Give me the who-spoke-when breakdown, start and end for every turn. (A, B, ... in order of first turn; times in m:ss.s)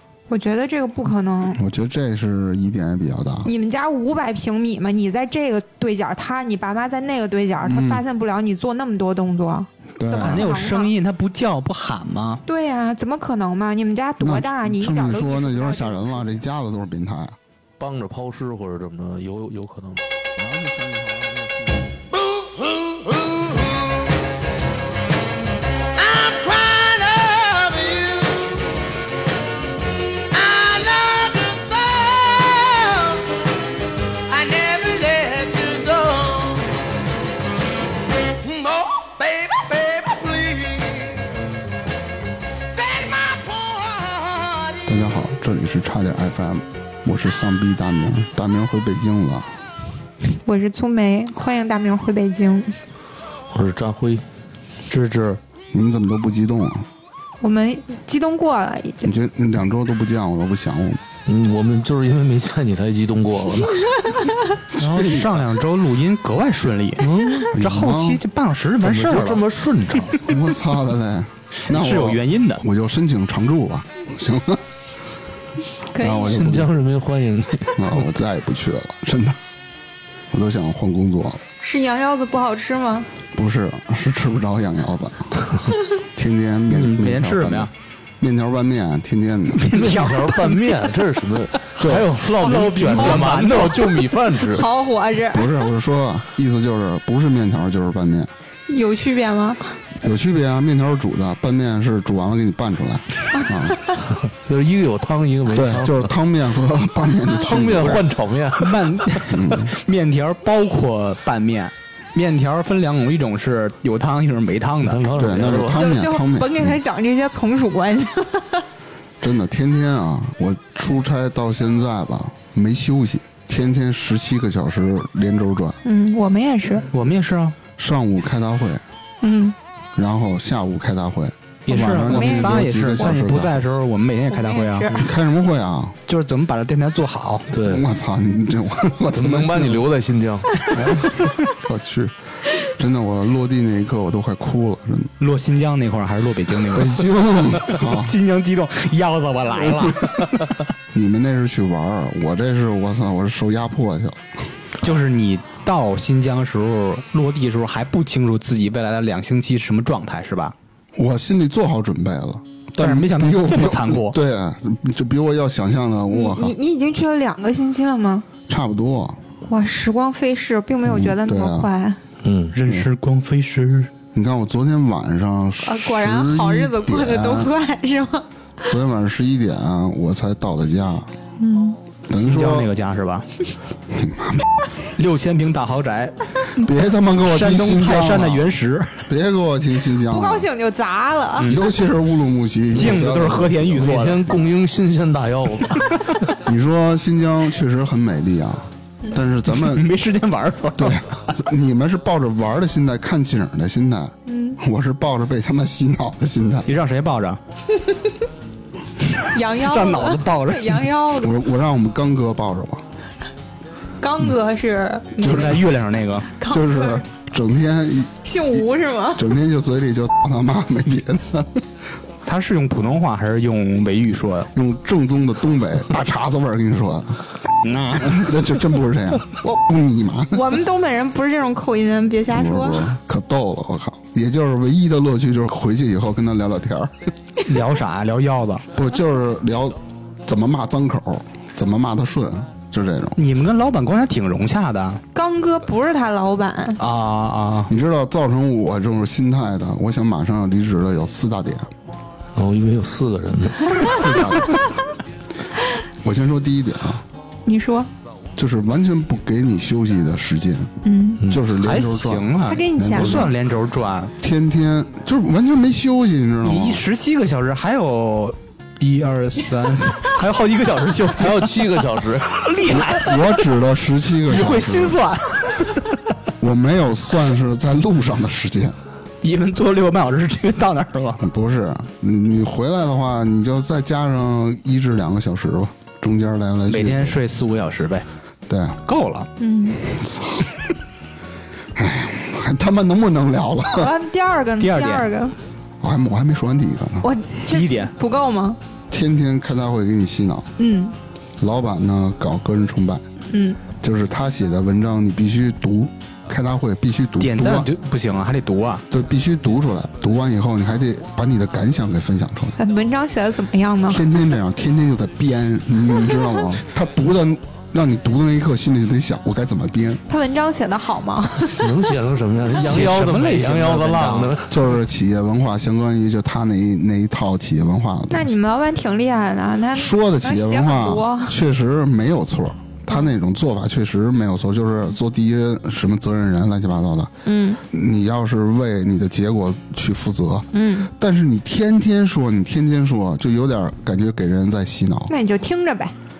0:00.3-0:01.6 A
0:01.5-0:03.5 B
0:03.4-0:10.9 A
0:07.6-0:08.0 B
0:10.0-0:10.5 B
0:10.2-0:12.4 C
0:12.4-0:16.4 A
0:14.2-0:17.4 B
0:17.8-0:20.0 D
0:20.4-0:21.9 B
0:26.0-0:28.4 E
0:27.3-0:27.9 D
0:30.3-0:33.3 E
0:34.3-0:36.7 E
0:38.4-0:41.0 E
0:42.8-0:44.7 E
0:44.8-0:49.5 B
0:50.3-0:52.7 A
0:53.5-0:54.2 D
0:54.9-0:55.4 C
0:55.7-0:56.9 B
0:57.4-0:59.1 A
0:59.0-1:01.0 B
1:01.2-1:04.1 D
1:04.7-1:09.4 C
1:04.8-1:05.3 B
1:07.0-1:07.5 D
1:07.5-1:08.2 B
1:08.8-1:10.2 D
1:10.2-1:14.6 B
1:11.7-1:12.6 C
1:15.9-1:16.5 A
1:16.0-1:16.7 B
1:16.2-1:18.0 D
1:17.7-1:19.4 B
1:20.3-1:21.4 B
1:21.6-1:23.1 A
1:23.3-1:29.7 B
1:26.7-1:27.7 C
1:29.6-1:30.6 C
1:29.7-1:34.7 D
1:31.8-1:32.1 B
1:32.4-1:34.0 C
1:33.0-1:33.2 A
1:34.4-1:35.5 A
1:35.3-1:38.3 B
1:38.7-1:39.8 A
1:40.0-1:43.8 B
1:43.4-1:43.9 A
1:44.3-1:46.1 D
1:45.5-1:48.0 B
1:47.3-1:49.0 D
1:48.6-1:55.1 C
1:49.3-1:49.7 B
1:54.8-1:55.9 D
1:55.1-1:56.8 B
1:55.7-1:58.6 A
1:59.2-2:05.8 B
2:05.8-2:06.9 A
2:06.9-2:07.6 C
2:07.8-2:08.8 B
2:09.2-2:09.6 A
2:09.9-2:13.6 B
2:11.6-2:15.0 C
2:12.0-2:13.2 A
2:14.3-2:15.1 A
2:14.9-2:16.0 B
2:16.1-2:17.5 C
2:17.5-2:17.8 D
2:17.6-2:19.8 B
2:19.1-2:20.7 D
2:20.7-2:21.4 C
2:20.8-2:25.1 B
2:25.2-2:27.0 C
2:26.7-2:28.1 B
2:27.6-2:30.5 C
2:30.9-2:34.3 B
2:34.8-2:40.5 C
2:40.9-2:46.6 B
2:42.8-2:44.2 C
2:46.1-2:48.3 A
2:48.5-2:49.2 B
2:49.4-2:52.0 A
2:50.8-2:51.7 B
2:52.2-2:52.5 D
2:52.5-2:53.9 C
2:54.1-2:57.5 B
2:55.6-2:58.3 A
2:58.6-3:01.1 B
3:01.4-3:01.8 A
3:02.1-3:02.7 B
3:02.1-3:03.3 C
3:03.9-3:04.4 B
3:04.9-3:06.2 C
3:06.5-3:08.5 B
3:07.2-3:09.1 C
3:09.1-3:10.5 B
3:10.0-3:11.6 A
3:11.4-3:11.6 C
3:11.5-3:13.9 B
3:12.7-3:14.2 C
3:13.8-3:16.0 D
3:15.9-3:16.2 C
3:16.4-3:19.8 B
3:19.5-3:21.4 C
3:20.8-3:26.7 B
3:24.2-3:24.6 A
3:26.7-3:27.4 C
3:27.8-3:28.1 A
3:29.1-3:30.8 C
3:29.3-3:31.3 A
3:31.2-3:32.8 B
3:34.0-3:35.7 A
3:35.2-3:36.3 C
3:35.2-3:35.6 B
3:36.4-3:37.0 A
3:36.4-3:41.6 B
3:38.2-3:39.3 A
3:42.2-3:44.5 C
3:44.5-3:47.2 B
3:47.6-3:48.3 C
3:47.9-3:50.5 B
3:50.3-3:52.9 A
3:52.3-3:56.9 B
3:57.4-3:58.7 C
3:58.7-4:03.2 B
4:03.2-4:05.0 C
4:05.1-4:06.8 A
4:06.8-4:07.7 C
4:07.7-4:11.7 B
4:12.3-4:13.8 D
4:13.8-4:14.6 B
4:16.0-4:17.0 B
4:17.4-4:17.9 A
4:18.4-4:20.7 B
4:20.8-4:21.2 A
4:21.2-4:23.3 B
4:21.6-4:24.1 C
4:22.4-4:23.3 A
4:24.2-4:26.8 B
4:26.4-4:31.5 C
4:31.2-4:32.3 D
4:32.2-4:33.4 C
4:32.6-4:35.0 B
4:34.3-4:35.9 C
4:36.4-4:38.8 B
4:39.2-4:41.2 C
4:41.2-4:47.2 B
4:46.7-4:48.0 C
4:48.5-4:48.8 B
4:48.8-4:49.3 C
4:49.4-4:49.8 A
4:49.8-4:50.6 B
4:51.7-4:53.9 B
4:53.7-4:55.4 A
4:54.6-4:55.1 C
4:55.8-4:57.1 B
4:57.0-4:58.6 A
4:57.5-4:57.9 C
4:58.9-5:00.5 B
5:00.6-5:00.9 A
5:01.4-5:03.0 B
5:03.3-5:03.6 A
5:03.8-5:07.7 B
5:07.2-5:08.8 C
5:08.9-5:12.6 B
5:12.6-5:14.2 A
5:13.9-5:20.0 B
5:20.1-5:21.8 A
5:21.6-5:24.6 D
5:22.5-5:24.3 C
5:24.5-5:28.3 B
5:28.1-5:31.4 A
5:29.7-5:37.1 B
5:37.2-5:37.6 A
5:37.7-5:45.1 B
5:40.5-5:40.9 A
5:45.1-5:45.9 A